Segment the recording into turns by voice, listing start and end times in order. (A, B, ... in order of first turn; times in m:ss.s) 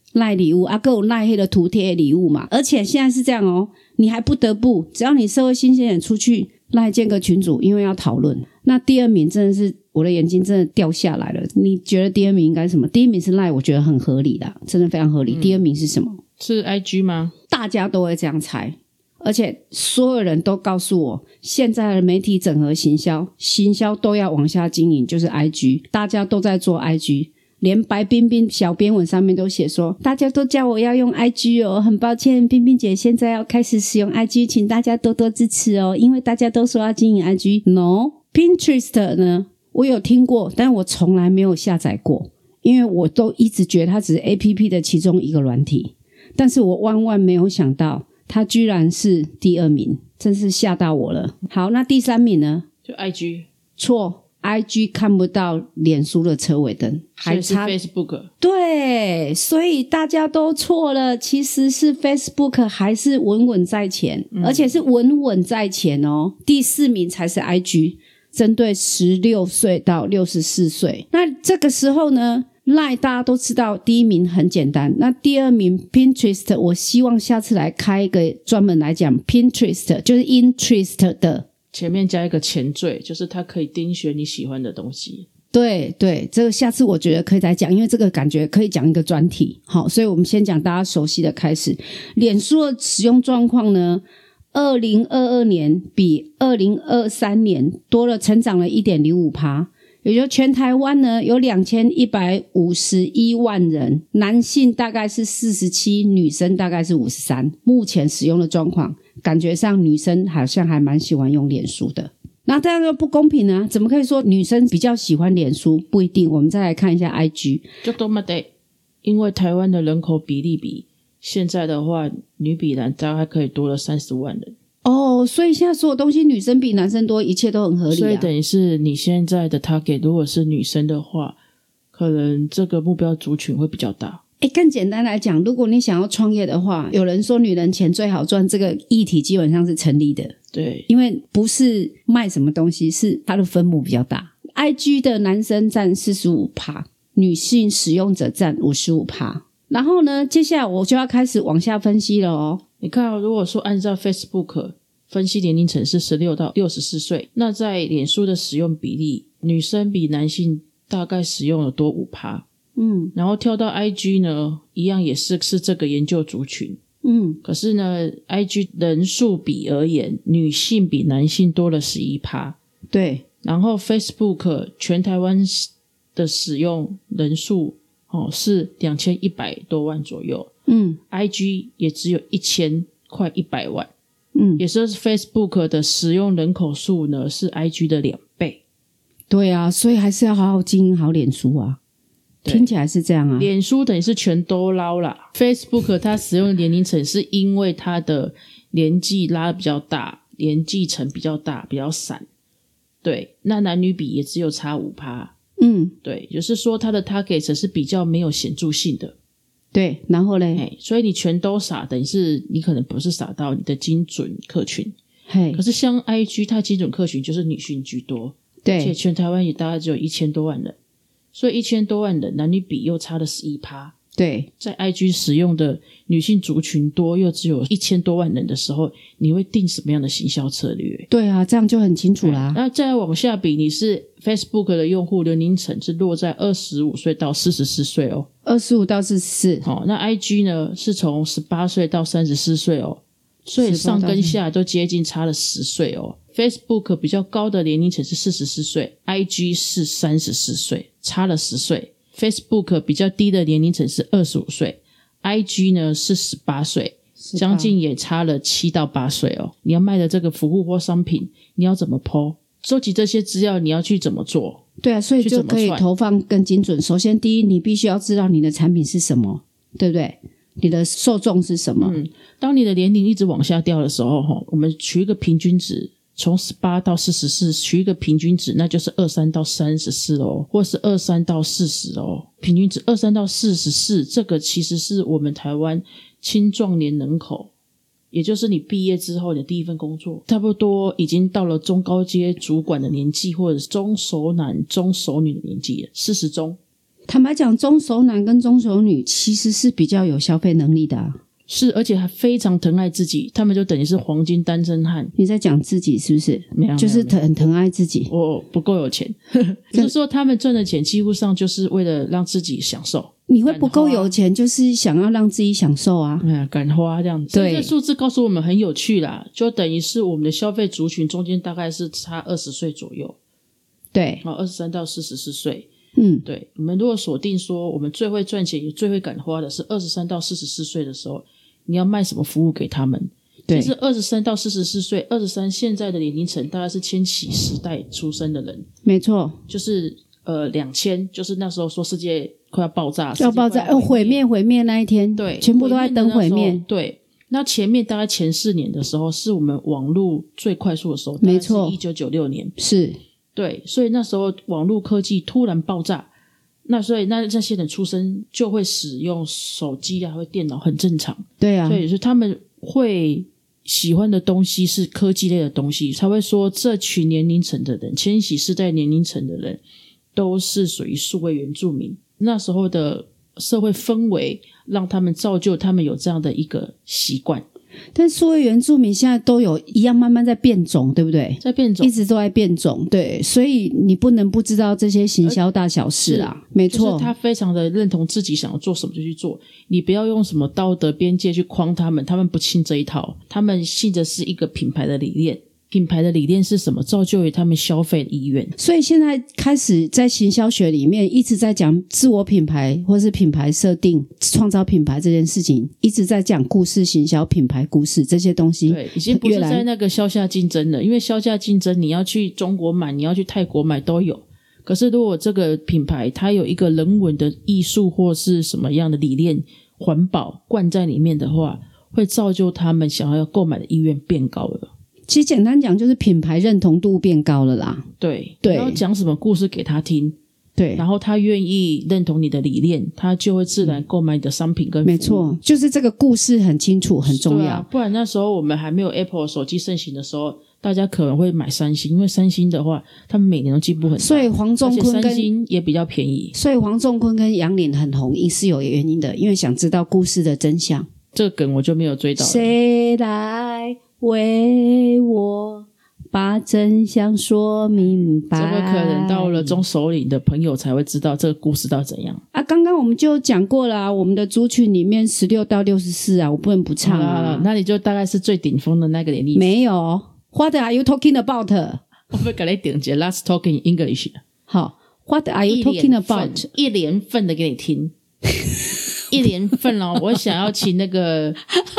0:00.1-0:16.2 A
0:15.3-0:15.6 B
0:16.4-0:17.3 B
0:17.5-0:52.6 A
0:52.8-0:53.5 B
0:53.8-0:57.7 A
0:57.2-0:58.3 B
0:58.4-1:21.4 A
1:04.3-1:04.8 B
1:21.7-1:25.3 B
1:25.5-1:57.6 A
1:57.8-1:58.5 B
1:59.0-2:04.5 B
2:04.8-2:08.3 A
2:07.9-2:11.4 B
2:11.9-2:14.2 B
2:14.4-2:20.3 A
2:20.5-2:20.9 B
2:20.9-2:32.6 A
2:32.8-2:42.4 B
2:42.8-2:43.1 A
2:43.1-2:46.8 B
2:47.0-2:47.4 A
2:47.4-2:52.6 B
2:52.9-2:53.2 A
2:53.4-3:00.5 B
3:00.7-3:01.0 A
3:01.1-3:03.9 B
3:04.3-3:04.6 A
3:04.6-3:08.6 B
3:09.3-3:11.8 A
3:12.4-3:12.7 B
3:12.5-3:13.5 A
3:13.4-3:22.3 B
3:23.0-3:25.3 B
3:25.6-3:25.9 A
3:26.0-3:29.1 B
3:29.7-3:30.6 A
3:30.6-3:34.9 B
3:35.3-3:35.6 A
3:35.5-3:40.7 B
3:38.6-3:38.9 A
3:41.3-3:43.9 B
3:44.2-3:44.5 A
3:44.6-3:51.1 B
3:51.1-3:52.6 A
3:52.2-3:58.3 B
3:58.4-3:59.6 A
3:59.6-4:24.6 B
4:03.6-4:04.4 A
4:17.2-4:17.7 A
4:24.8-4:32.0 A
4:25.2-4:25.8 B
4:31.8-4:47.5 B
4:48.1-4:56.6 B
4:57.1-5:01.2 A
5:01.5-5:05.1 B
5:05.1-5:08.1 A
5:06.5-5:07.2 B
5:08.1-5:14.1 B
5:13.3-5:16.2 A
5:16.2-5:23.2 B
5:17.3-5:17.7 A
5:23.9-5:24.2 A
5:24.2-5:25.7 B
5:26.0-5:26.2 A
5:26.2-5:38.6 B
5:33.5-5:33.7 A
5:38.8-5:39.4 A
5:39.5-5:44.2 B
5:43.2-5:46.6 A
5:45.2-5:52.5 B
5:51.2-5:51.8 A
5:52.6-5:53.0 A
5:53.3-5:56.1 B
5:56.6-6:09.6 B
6:01.4-6:01.8 A
6:10.1-6:17.4 B
6:17.9-6:27.1 A
6:21.4-6:21.9 B
6:26.0-6:38.5 B
6:38.6-6:49.6 A
6:48.6-7:04.7 B
7:05.1-7:07.9 A
7:08.0-7:10.2 B
7:08.4-7:08.8 A
7:10.6-7:10.8 A
7:10.8-7:15.3 B
7:14.8-7:17.6 A
7:17.0-7:26.3 B
7:24.0-7:25.3 A
7:26.3-7:30.9 A
7:31.1-7:32.5 B
7:32.2-7:39.6 A
7:38.3-7:42.2 B
7:42.3-7:47.5 A
7:46.8-7:49.5 B
7:49.3-7:51.8 A
7:52.1-7:54.2 B
7:54.5-7:56.5 A
7:55.5-7:57.9 B
7:58.5-7:58.7 A
7:59.1-8:01.4 B